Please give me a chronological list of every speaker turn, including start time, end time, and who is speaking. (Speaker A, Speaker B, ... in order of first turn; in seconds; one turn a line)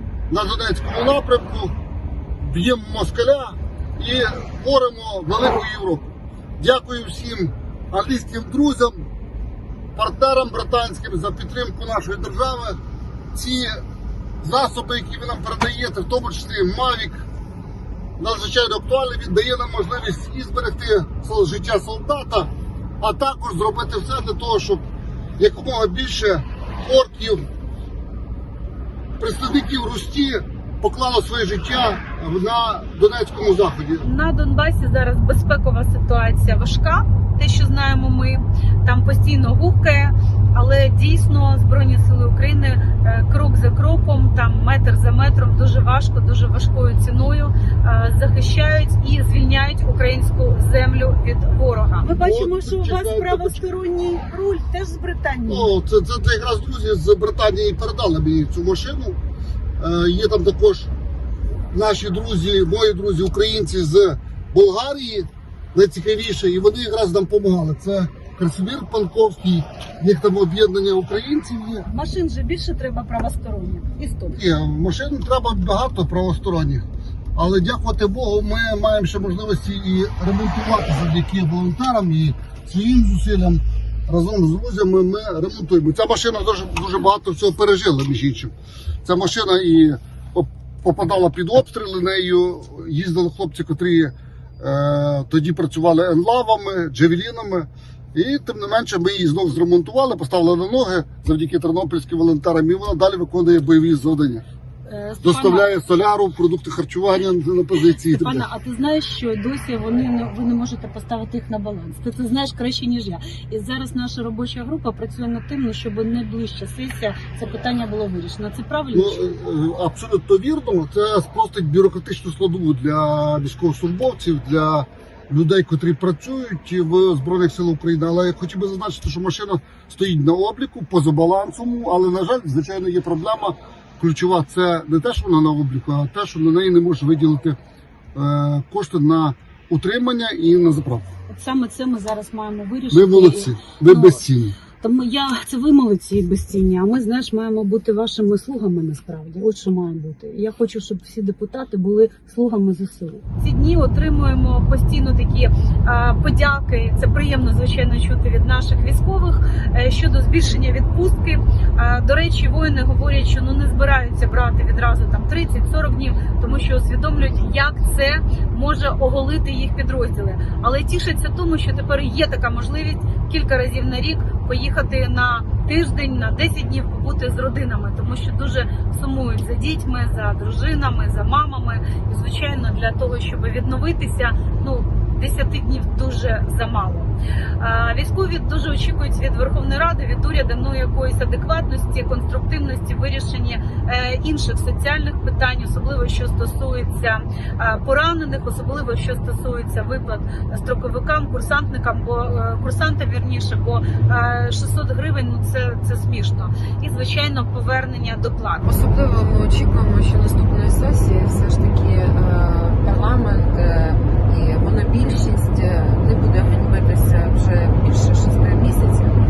Speaker A: 0.3-1.7
Speaker A: 2.4-9.1
Speaker A: 9.9-12.8
Speaker A: 13.3-13.8
Speaker A: 14.4-17.3
Speaker A: 18.2-24.8
Speaker A: 25.4-27.5
Speaker A: 29.2-34.1
Speaker B: 34.0-55.7
Speaker A: 52.1-53.6
Speaker A: 55.5-59.2
Speaker A: 59.8-60.9
Speaker A: 61.7-71.9
Speaker B: 71.8-74.4
Speaker A: 74.3-76.8
Speaker A: 77.3-88.5
Speaker A: 89.0-104.4
Speaker B: 104.8-105.7
Speaker A: 105.2-108.5
Speaker B: 107.9-119.2
Speaker A: 118.9-137.6
Speaker A: 138.1-141.1
Speaker B: 141.3-144.2
Speaker A: 142.9-144.5
Speaker B: 144.8-208.7
Speaker C: 208.7-219.1